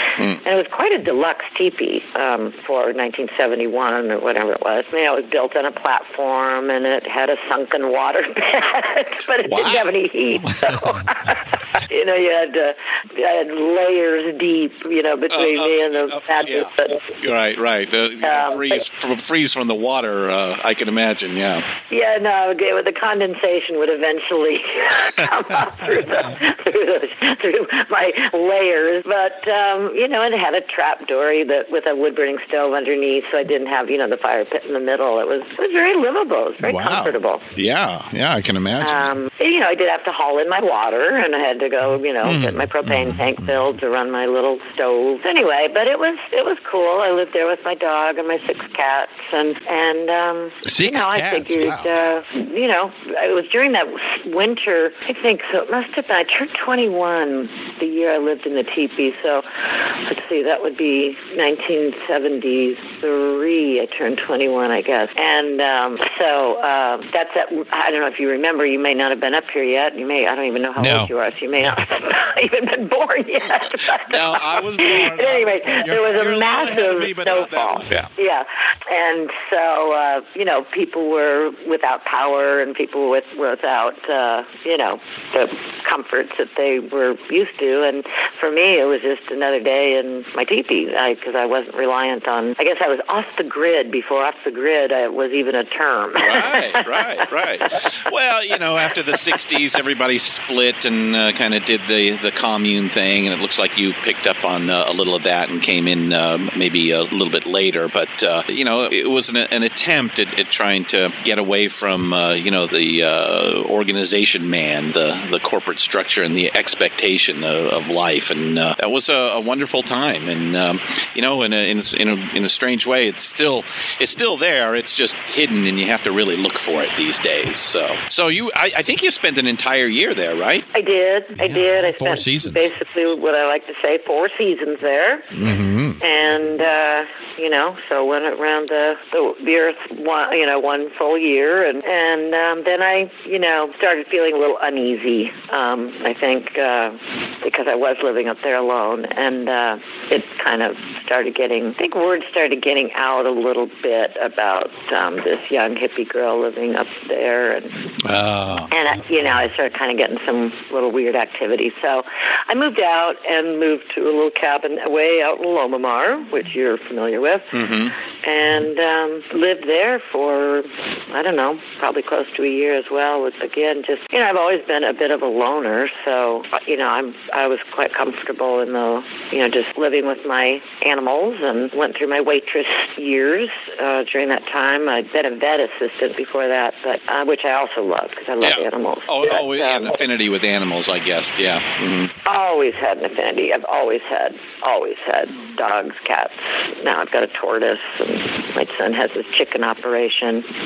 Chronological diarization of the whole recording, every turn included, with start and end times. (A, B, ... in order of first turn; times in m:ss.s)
0:00.4-0:17.0 A
0:09.5-0:09.9 B
0:15.3-0:21.6 B
0:18.2-0:18.8 A
0:21.9-0:37.4 A
0:36.6-0:39.1 B
0:38.8-1:37.0 A
0:42.2-0:43.6 B
0:50.7-0:51.9 B
1:10.8-1:11.1 B
1:14.0-1:18.1 B
1:36.2-2:10.7 B
2:10.7-2:15.4 A
2:11.4-2:12.7 B
2:15.4-2:16.0 B
2:16.0-2:37.9 A
2:38.0-2:38.7 B
2:38.7-2:47.6 A
2:47.5-2:47.9 B
2:48.2-3:10.0 A
3:08.4-3:12.1 B
3:12.3-3:20.5 A